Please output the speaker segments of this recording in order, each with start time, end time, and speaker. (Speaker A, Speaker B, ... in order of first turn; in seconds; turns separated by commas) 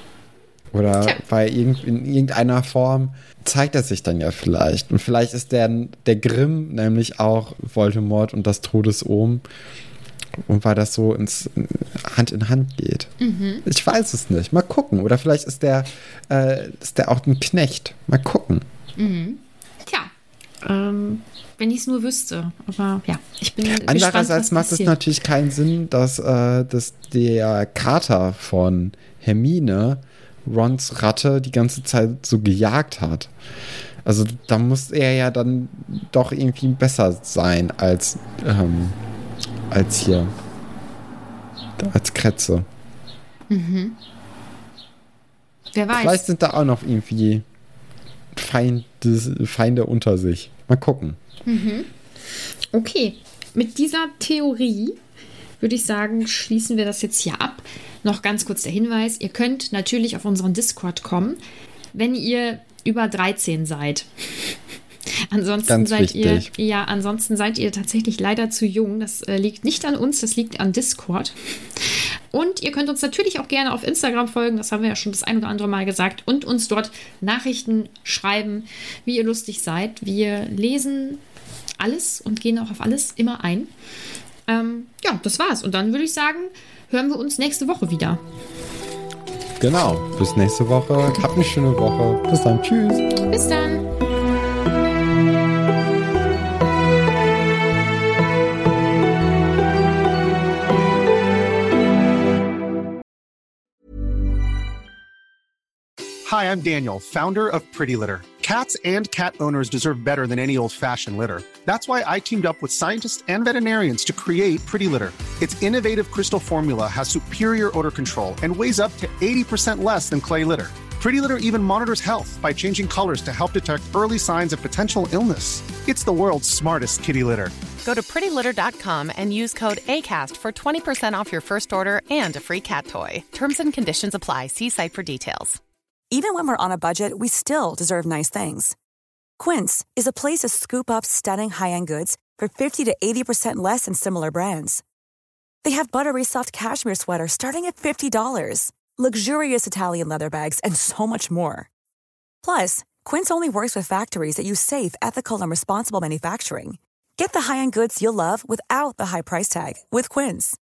Speaker A: 0.7-9.4, Speaker B: 0.9-1.2, Speaker A: 10.4-13.1, Speaker B: 13.2-13.6, Speaker A: 13.6-18.6, Speaker B: 19.0-20.1, Speaker B: 20.6-24.9, Speaker A: 23.7-33.3, Speaker A: 34.0-39.0, Speaker A: 39.7-40.3, Speaker A: 41.8-42.6, Speaker B: 43.5-44.0, Speaker B: 45.7-46.2, Speaker A: 45.9-47.5, Speaker A: 48.3-51.2, Speaker B: 51.5-51.9, Speaker B: 52.7-55.0, Speaker B: 55.6-61.4, Speaker B: 61.9-64.1, Speaker B: 65.3-71.3, Speaker A: 65.7-66.5, Speaker B: 72.3-81.2, Speaker B: 81.8-83.7, Speaker B: 84.5-88.2, Speaker A: 89.6-93.1, Speaker B: 93.2-93.8, Speaker C: 106.2-127.5, Speaker D: 127.8-135.6, Speaker E: 136.1-138.8, Speaker E: 139.4-144.8, Speaker E: 145.6-151.7, Speaker E: 152.4-160.6